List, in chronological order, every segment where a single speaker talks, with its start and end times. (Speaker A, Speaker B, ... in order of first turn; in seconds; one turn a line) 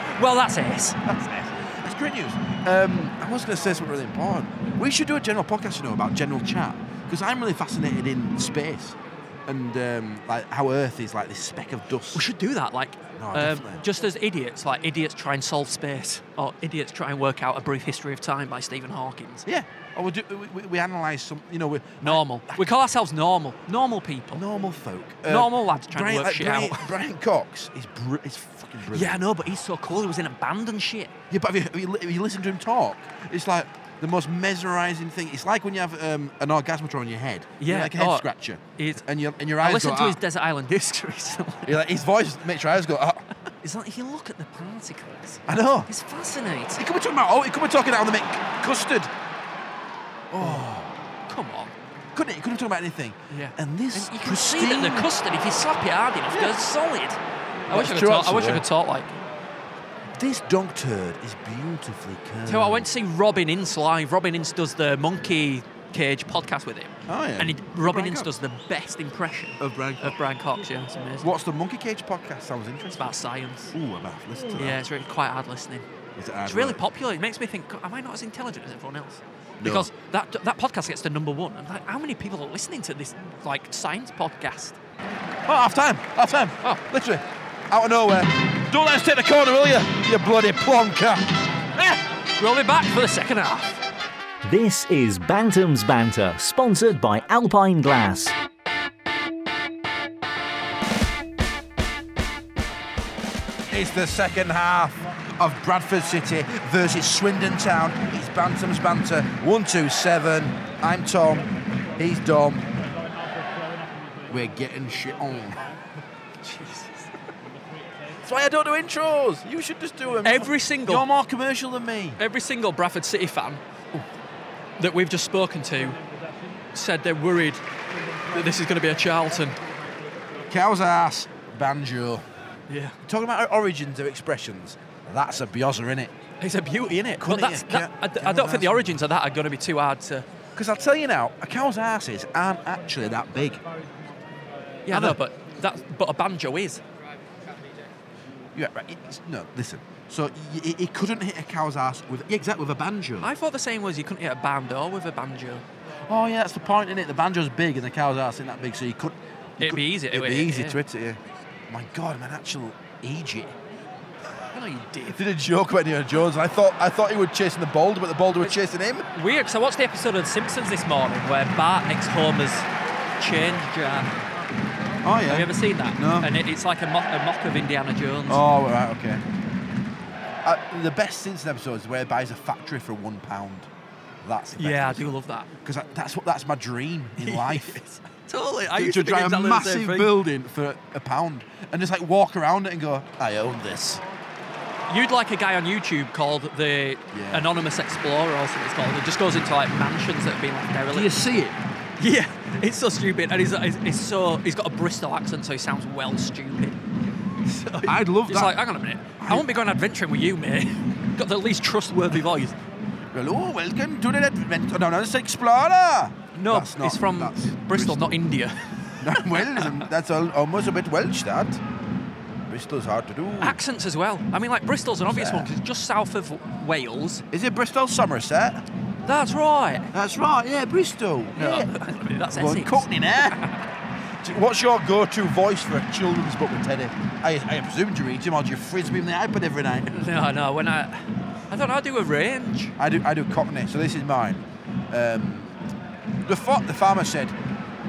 Speaker A: 0.1-1.0
Speaker B: 1.0-12.2
Speaker A: 12.1-19.5
Speaker B: 13.2-13.8
Speaker B: 19.4-22.7
Speaker A: 22.0-24.4
Speaker B: 24.3-29.2
Speaker A: 25.3-26.9
Speaker A: 28.9-31.1
Speaker B: 31.3-40.2
Speaker A: 37.6-39.0
Speaker A: 39.6-41.8
Speaker B: 41.6-43.2
Speaker A: 43.6-46.8
Speaker B: 45.5-45.9
Speaker B: 46.8-49.1
Speaker B: 50.3-50.9
Speaker A: 51.3-51.7
Speaker B: 52.1-55.1
Speaker A: 53.3-59.2
Speaker B: 56.3-56.5
Speaker B: 57.7-58.6
Speaker B: 60.1-62.9
Speaker A: 62.5-71.3
Speaker B: 67.1-68.3
Speaker B: 69.6-70.2
Speaker B: 71.2-73.2
Speaker A: 73.0-73.8
Speaker B: 73.7-74.8
Speaker A: 74.5-75.8
Speaker B: 76.2-76.8
Speaker A: 76.4-84.8
Speaker B: 79.6-79.9
Speaker B: 85.5-92.0
Speaker A: 92.4-93.8
Speaker C: 94.4-98.3
Speaker B: 103.7-112.7
Speaker B: 114.3-115.6
Speaker A: 116.4-117.1
Speaker B: 118.2-122.2
Speaker A: 120.2-121.0
Speaker A: 122.2-123.6
Speaker A: 124.8-126.0
Speaker A: 126.7-127.6
Speaker A: 128.3-129.6
Speaker B: 130.5-132.2
Speaker A: 132.7-132.9
Speaker B: 133.0-136.1
Speaker A: 136.4-140.3
Speaker B: 137.2-139.0
Speaker B: 140.5-143.6
Speaker A: 144.9-146.8
Speaker B: 144.9-145.2
Speaker B: 148.5-153.3
Speaker A: 153.2-155.6
Speaker B: 156.1-163.6
Speaker A: 159.6-160.8
Speaker A: 164.5-165.2
Speaker B: 165.1-169.1
Speaker A: 169.1-172.7
Speaker A: 173.2-174.1
Speaker B: 175.0-176.3
Speaker A: 175.3-178.4
Speaker B: 178.3-179.2
Speaker B: 180.4-183.7
Speaker B: 184.2-187.8
Speaker A: 184.5-185.5
Speaker A: 187.2-190.1
Speaker B: 188.7-194.0
Speaker A: 194.9-201.3
Speaker B: 197.1-197.5
Speaker B: 200.9-201.6
Speaker A: 202.0-206.8
Speaker A: 207.4-212.6
Speaker B: 207.8-208.6
Speaker B: 209.2-209.5
Speaker B: 213.1-218.2
Speaker A: 216.3-219.8
Speaker B: 219.0-221.6
Speaker B: 222.5-223.6
Speaker A: 223.4-227.2
Speaker B: 225.1-225.5
Speaker B: 227.3-228.6
Speaker A: 229.0-229.9
Speaker B: 229.9-231.7
Speaker A: 231.3-233.6
Speaker B: 232.3-233.4
Speaker B: 234.2-240.0
Speaker A: 239.9-242.7
Speaker B: 242.8-245.6
Speaker B: 246.2-247.3